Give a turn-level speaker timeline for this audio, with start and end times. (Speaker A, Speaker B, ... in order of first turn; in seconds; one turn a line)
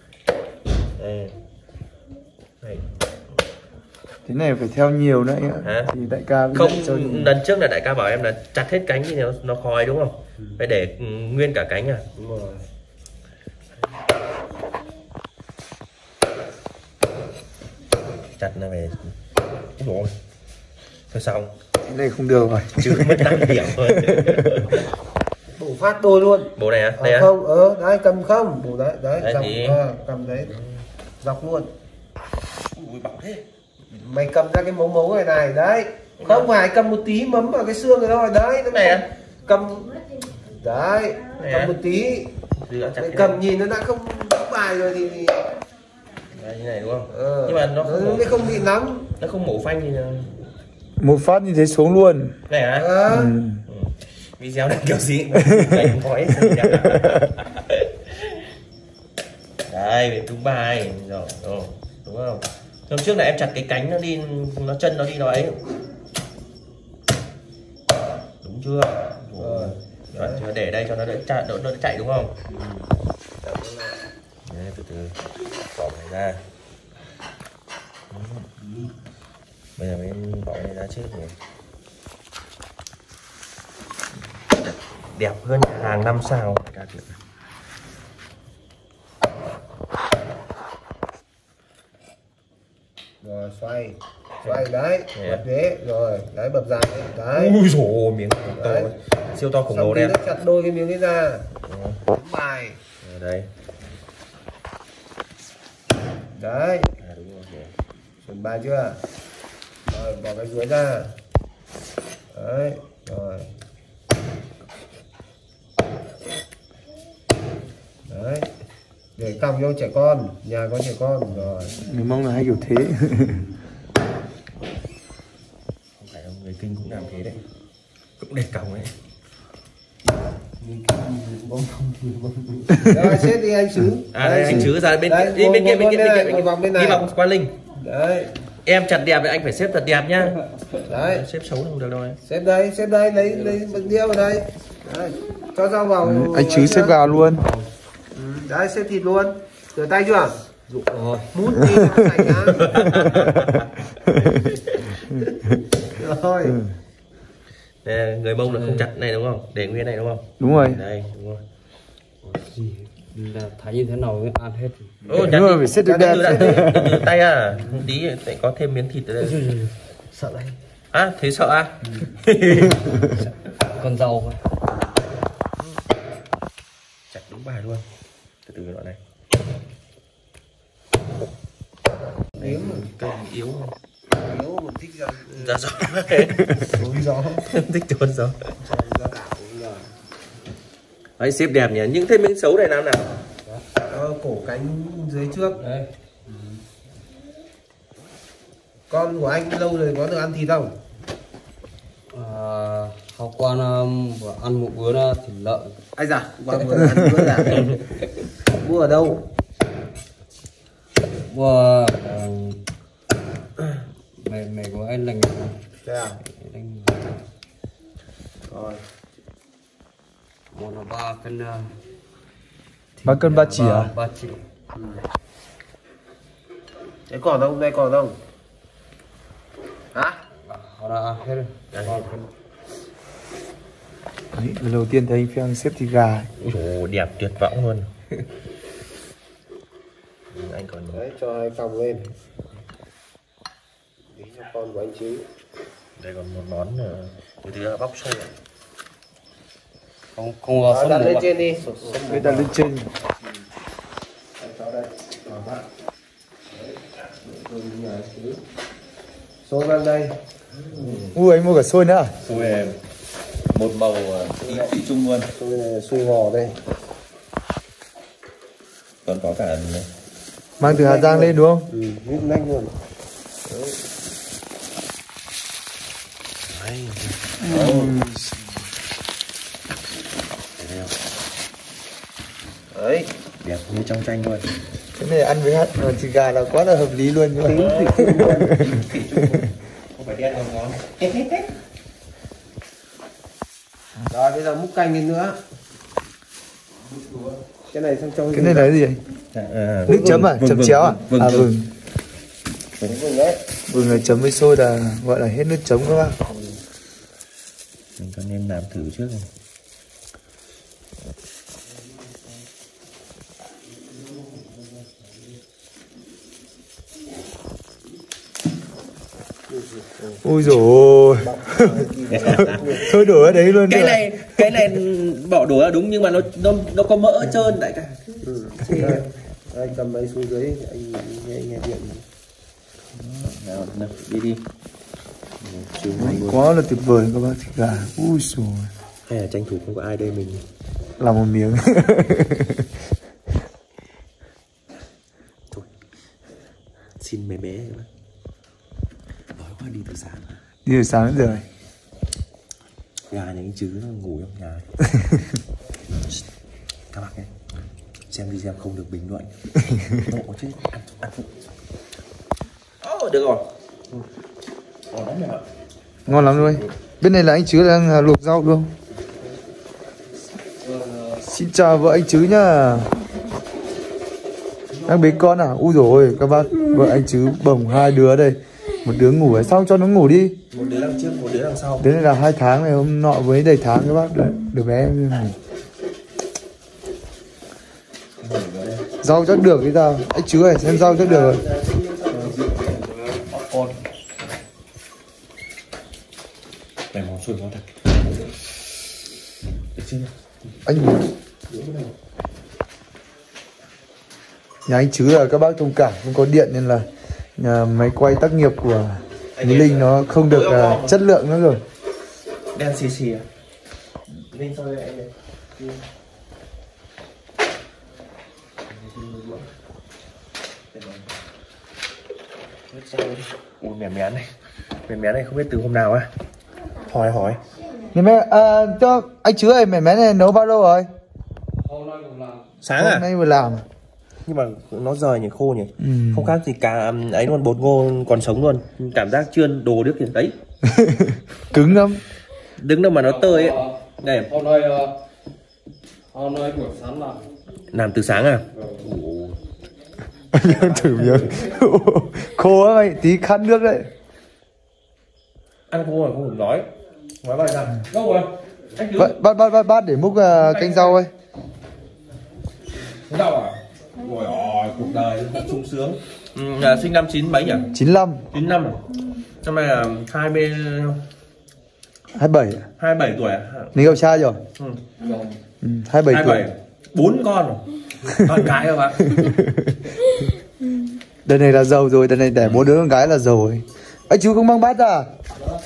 Speaker A: 1.0-1.3
Speaker B: 4.3-7.3
Speaker A: 5.6-5.9
Speaker A: 6.5-12.0
Speaker C: 12.2-12.6
Speaker A: 18.4-19.2
Speaker A: 19.8-20.1
Speaker A: 21.1-21.5
Speaker B: 21.9-24.6
Speaker A: 22.7-24.9
Speaker C: 25.5-30.6
Speaker A: 26.5-27.3
Speaker A: 29.2-29.8
Speaker C: 31.2-31.7
Speaker A: 32.7-33.4
Speaker C: 33.9-42.3
Speaker A: 36.2-36.5
Speaker A: 38.7-39.0
Speaker A: 41.3-41.8
Speaker A: 42.5-43.4
Speaker C: 43.0-45.5
Speaker A: 46.3-50.3
Speaker C: 47.1-49.0
Speaker B: 51.0-52.3
Speaker A: 52.5-53.1
Speaker C: 52.8-53.3
Speaker B: 53.1-53.6
Speaker A: 53.7-58.5
Speaker B: 55.3-57.2
Speaker A: 59.7-65.6
Speaker A: 68.4-72.3
Speaker C: 69.4-70.5
Speaker C: 73.4-74.0
Speaker A: 74.5-75.2
Speaker A: 75.7-76.4
Speaker A: 78.1-78.5
Speaker A: 79.8-81.3
Speaker A: 84.5-87.1
Speaker C: 93.2-97.6
Speaker A: 94.4-95.4
Speaker A: 97.3-100.4
Speaker C: 98.5-98.9
Speaker C: 99.7-101.5
Speaker A: 101.6-102.1
Speaker C: 102.1-102.8
Speaker A: 103.0-103.5
Speaker C: 106.4-106.9
Speaker A: 107.0-107.7
Speaker C: 108.2-109.0
Speaker C: 109.9-111.1
Speaker C: 112.3-113.5
Speaker C: 118.1-118.5
Speaker C: 119.2-121.8
Speaker B: 121.8-123.5
Speaker A: 126.0-127.4
Speaker A: 128.2-128.9
Speaker C: 130.6-137.1
Speaker B: 132.7-133.1
Speaker A: 134.1-137.6
Speaker C: 137.8-138.3
Speaker A: 138.6-142.2
Speaker C: 140.9-141.2
Speaker C: 142.2-147.0
Speaker D: 143.3-143.5
Speaker B: 146.0-147.4
Speaker C: 148.1-150.4
Speaker D: 150.7-151.3
Speaker C: 151.3-153.1
Speaker A: 152.5-155.1
Speaker B: 153.3-154.3
Speaker C: 155.9-156.6
Speaker B: 156.4-156.7
Speaker A: 157.8-161.4
Speaker D: 158.5-158.8
Speaker B: 160.4-160.8
Speaker D: 162.2-165.0
Speaker A: 165.1-169.4
Speaker B: 165.1-167.1
Speaker C: 165.8-166.7
Speaker D: 169.3-169.7
Speaker C: 170.1-170.6
Speaker A: 170.9-172.9
Speaker D: 173.0-174.4
Speaker A: 177.1-177.8
Speaker A: 178.5-179.0
Speaker C: 182.4-182.9
Speaker A: 182.4-183.7
Speaker C: 184.2-185.7
Speaker A: 185.3-188.5
Speaker C: 186.7-187.4
Speaker C: 188.6-189.9
Speaker A: 191.2-193.1
Speaker C: 193.9-195.6
Speaker C: 198.9-200.7
Speaker D: 202.1-205.8
Speaker C: 206.0-207.8
Speaker B: 206.8-207.5
Speaker A: 207.4-208.2
Speaker C: 208.5-209.2
Speaker D: 211.3-212.6
Speaker D: 214.2-215.6
Speaker C: 215.8-216.2
Speaker D: 216.3-217.2
Speaker C: 218.5-218.8
Speaker D: 220.5-221.7
Speaker D: 223.0-224.4
Speaker B: 223.1-223.9
Speaker C: 224.7-225.0
Speaker C: 227.1-228.2
Speaker C: 229.9-230.2
Speaker D: 230.5-232.2
Speaker A: 231.7-232.1
Speaker B: 234.3-236.3
Speaker A: 236.4-238.2
Speaker A: 240.3-241.0
Speaker C: 240.9-242.1
Speaker C: 244.1-245.2
Speaker A: 246.0-248.3
Speaker D: 250.2-251.2
Speaker C: 250.7-252.5
Speaker B: 252.1-252.9
Speaker C: 254.4-255.6
Speaker C: 257.2-258.4
Speaker C: 259.4-260.2
Speaker A: 260.5-261.2
Speaker B: 261.1-262.1
Speaker A: 262.2-262.8
Speaker C: 262.3-262.7
Speaker A: 263.5-265.3
Speaker C: 264.4-264.7
Speaker C: 265.4-266.6
Speaker A: 269.1-269.9
Speaker B: 270.6-271.7
Speaker C: 270.6-272.7
Speaker C: 273.5-273.8
Speaker A: 276.5-277.9
Speaker B: 277.4-278.4
Speaker C: 277.5-277.9
Speaker A: 280.6-280.9
Speaker C: 282.7-283.1
Speaker A: 283.4-284.4
Speaker B: 284.9-289.2
Speaker C: 287.4-288.5
Speaker A: 287.5-291.5
Speaker C: 294.1-295.4
Speaker A: 297.0-297.4
Speaker C: 297.7-298.7
Speaker B: 298.3-299.0
Speaker A: 299.3-301.5
Speaker B: 299.9-301.7
Speaker C: 299.9-300.3
Speaker C: 302.8-304.1
Speaker B: 303.7-306.2
Speaker A: 308.0-309.3
Speaker C: 319.9-320.2
Speaker B: 320.2-324.6
Speaker C: 321.2-323.2
Speaker A: 322.1-322.9
Speaker A: 323.4-329.1
Speaker C: 328.2-332.0
Speaker A: 333.0-334.4
Speaker A: 335.4-336.4
Speaker B: 336.0-338.7
Speaker A: 339.1-340.4
Speaker B: 341.0-342.7
Speaker A: 347.0-347.9
Speaker A: 349.4-350.4
Speaker B: 350.6-351.4
Speaker A: 353.1-354.7
Speaker A: 356.9-357.3
Speaker A: 358.1-359.3
Speaker A: 359.9-361.3
Speaker A: 362.8-363.4
Speaker A: 364.9-365.4
Speaker B: 366.1-368.7
Speaker D: 370.6-371.2
Speaker B: 371.2-372.9
Speaker A: 374.7-375.3
Speaker B: 374.9-380.4
Speaker A: 380.5-381.9
Speaker B: 381.8-385.4
Speaker A: 388.2-388.9
Speaker B: 389.0-391.4
Speaker A: 390.5-392.7
Speaker D: 392.3-393.8
Speaker A: 396.9-397.9
Speaker A: 399.8-400.1
Speaker B: 400.7-401.1
Speaker A: 401.5-401.9
Speaker B: 404.7-406.9
Speaker B: 407.4-411.6
Speaker A: 409.4-411.0
Speaker A: 412.5-413.2
Speaker A: 414.3-415.8
Speaker A: 418.7-419.5
Speaker A: 420.7-421.1
Speaker A: 422.7-424.3
Speaker A: 424.9-426.1
Speaker A: 426.8-427.4
Speaker B: 427.9-430.9
Speaker D: 431.6-432.4
Speaker A: 432.6-433.1
Speaker B: 432.8-433.6
Speaker A: 434.2-440.4
Speaker B: 435.8-436.4
Speaker B: 440.6-442.0
Speaker A: 442.6-444.3
Speaker D: 443.0-443.8
Speaker D: 444.3-444.9
Speaker D: 446.1-447.2
Speaker A: 447.7-449.4
Speaker B: 450.3-453.9
Speaker A: 450.6-451.4
Speaker A: 455.7-456.7
Speaker A: 457.2-459.2
Speaker B: 459.0-461.1
Speaker A: 460.4-461.0
Speaker A: 463.1-467.7
Speaker B: 467.7-468.2
Speaker A: 468.3-468.8
Speaker A: 469.4-471.0
Speaker B: 472.1-472.7
Speaker A: 472.8-474.9
Speaker B: 473.7-474.4
Speaker D: 475.1-475.4
Speaker B: 475.6-476.5
Speaker A: 476.1-479.3
Speaker B: 478.1-478.5
Speaker B: 479.1-479.9
Speaker B: 481.2-485.1
Speaker A: 482.4-482.7